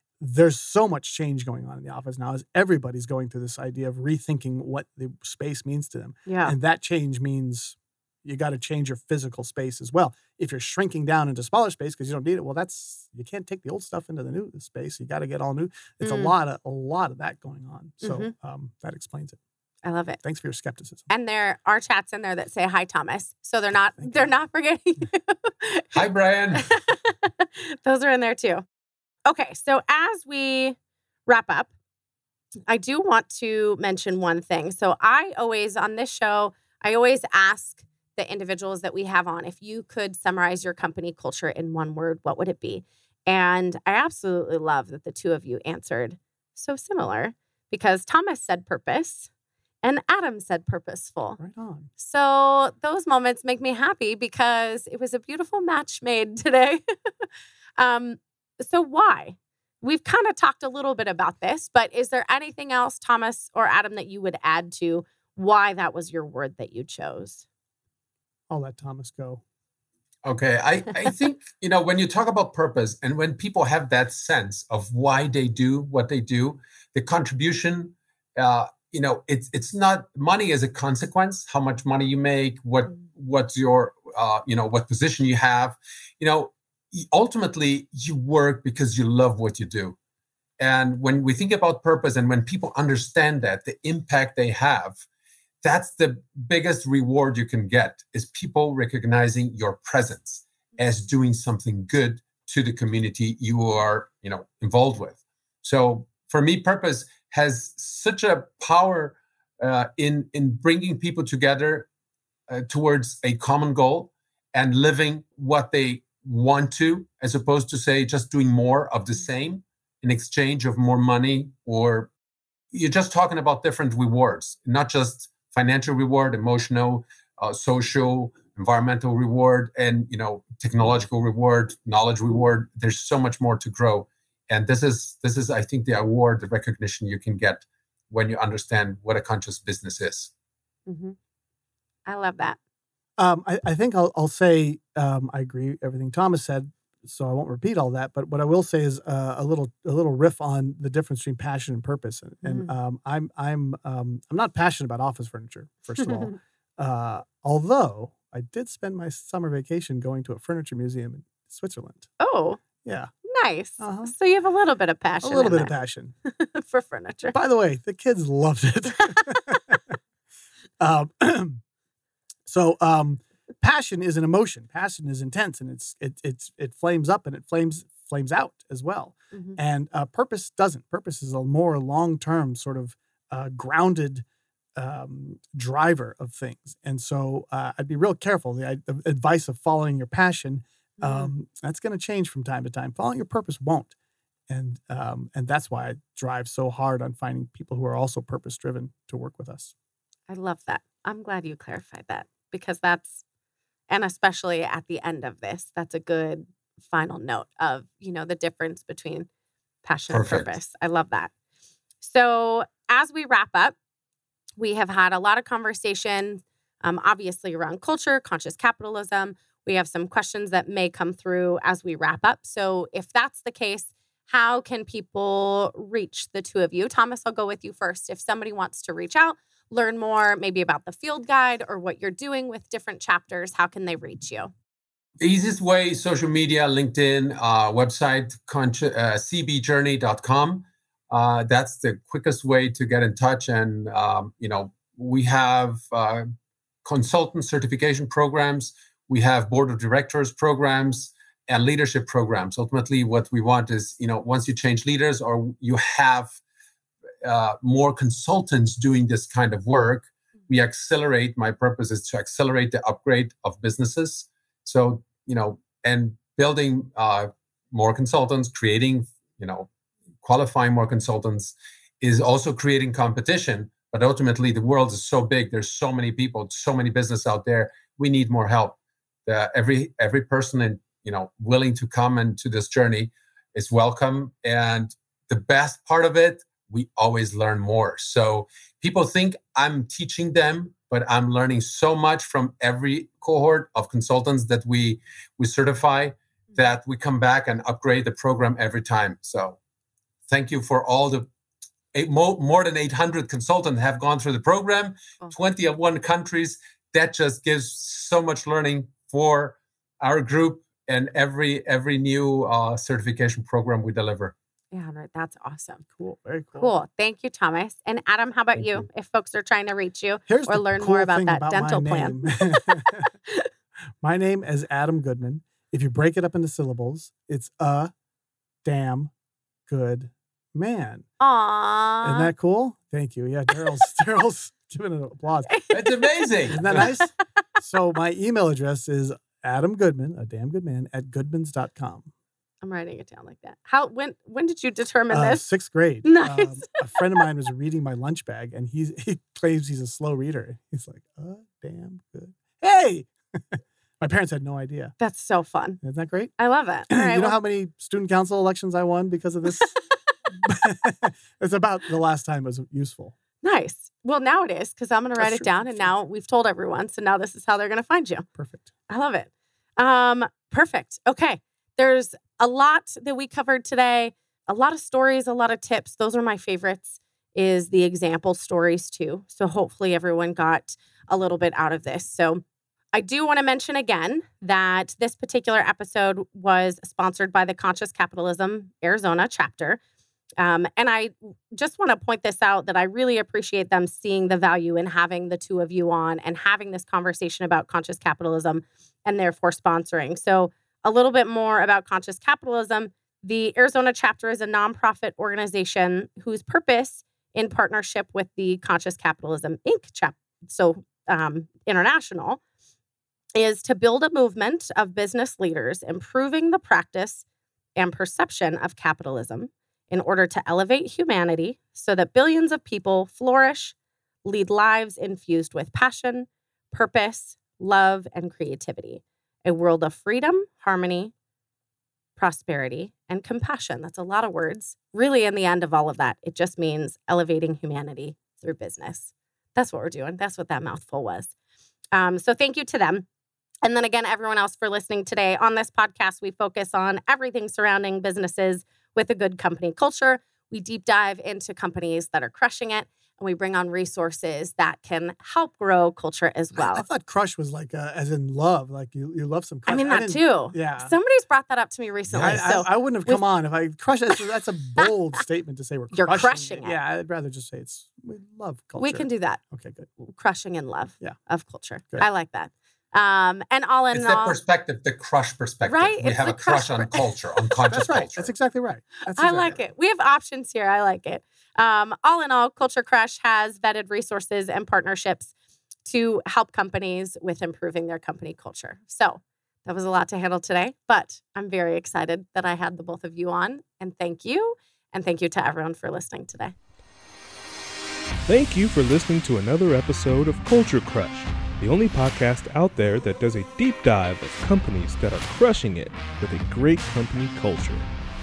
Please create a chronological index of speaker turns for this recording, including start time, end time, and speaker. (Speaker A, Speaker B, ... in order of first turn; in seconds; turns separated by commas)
Speaker A: 0.2-19.4, Speaker B: 6.3-6.5, Speaker B: 16.0-16.3, Speaker B: 18.0-18.3, Speaker B: 19.8-20.2, Speaker A: 20.2-21.1, Speaker B: 21.1-26.0, Speaker A: 24.0-24.3, Speaker C: 25.9-26.7, Speaker B: 26.6-28.6, Speaker B: 29.3-30.8, Speaker B: 31.3-31.7, Speaker B: 32.7-49.3, Speaker B: 49.8-51.4, Speaker A: 51.4-51.9, Speaker B: 52.0-57.3, Speaker B: 57.8-67.5, Speaker A: 68.5-69.4, Speaker C: 70.2-90.0, Speaker C: 90.6-95.0, Speaker C: 95.6-111.9, Speaker C: 112.5-122.1, Speaker C: 122.7-140.3, Speaker B: 140.9-141.2, Speaker B: 142.1-142.6, Speaker A: 143.2-162.1, Speaker B: 152.4-152.7, Speaker B: 156.0-156.4, Speaker B: 162.2-162.6, Speaker A: 162.8-163.1, Speaker B: 163.2-167.4, Speaker A: 163.8-164.1, Speaker A: 165.2-166.1, Speaker A: 167.3-169.9, Speaker A: 170.8-171.6, Speaker A: 172.5-184.2, Speaker B: 179.3-179.6, Speaker A: 184.8-193.9, Speaker B: 191.0-191.3, Speaker A: 194.5-199.7, Speaker B: 200.3-203.2, Speaker B: 203.9-209.3, Speaker B: 209.8-211.3, Speaker C: 210.1-210.5, Speaker B: 212.0-213.8, Speaker B: 214.6-234.5, Speaker C: 235.2-246.3, Speaker C: 246.8-256.4, Speaker C: 257.2-269.7, Speaker C: 270.2-299.6, Speaker C: 300.3-301.3, Speaker C: 301.9-314.3, Speaker B: 314.7-315.8, Speaker A: 315.9-316.7, Speaker B: 316.6-323.5, Speaker A: 320.3-323.1, Speaker A: 324.0-327.9, Speaker A: 328.6-329.1, Speaker A: 329.7-331.1, Speaker B: 331.2-332.3, Speaker A: 332.0-335.6, Speaker B: 335.5-336.1, Speaker C: 335.7-336.9, Speaker A: 336.5-342.1, Speaker B: 336.6-337.1, Speaker B: 342.6-345.4, Speaker A: 345.1-354.9, Speaker B: 346.1-347.1, Speaker B: 355.0-355.8, Speaker A: 355.8-356.3, Speaker B: 356.4-357.4, Speaker A: 356.9-363.1, Speaker B: 359.5-360.0, Speaker B: 363.4-368.3, Speaker A: 365.2-365.9, Speaker A: 368.4-368.7, Speaker B: 368.9-389.8, Speaker B: 390.4-412.4, Speaker B: 413.4-417.2, Speaker B: 417.8-431.1, Speaker B: 432.2-441.3, Speaker B: 441.9-443.1, Speaker B: 443.6-456.9, Speaker A: 456.6-460.9, Speaker B: 459.7-463.2, Speaker A: 462.1-469.9, Speaker B: 465.9-466.8, Speaker B: 468.8-469.4, Speaker B: 470.0-474.4, Speaker C: 473.9-478.3, Speaker B: 475.7-477.4, Speaker A: 477.7-479.6, Speaker B: 479.1-485.3, Speaker B: 485.9-496.6, Speaker D: 498.3-507.9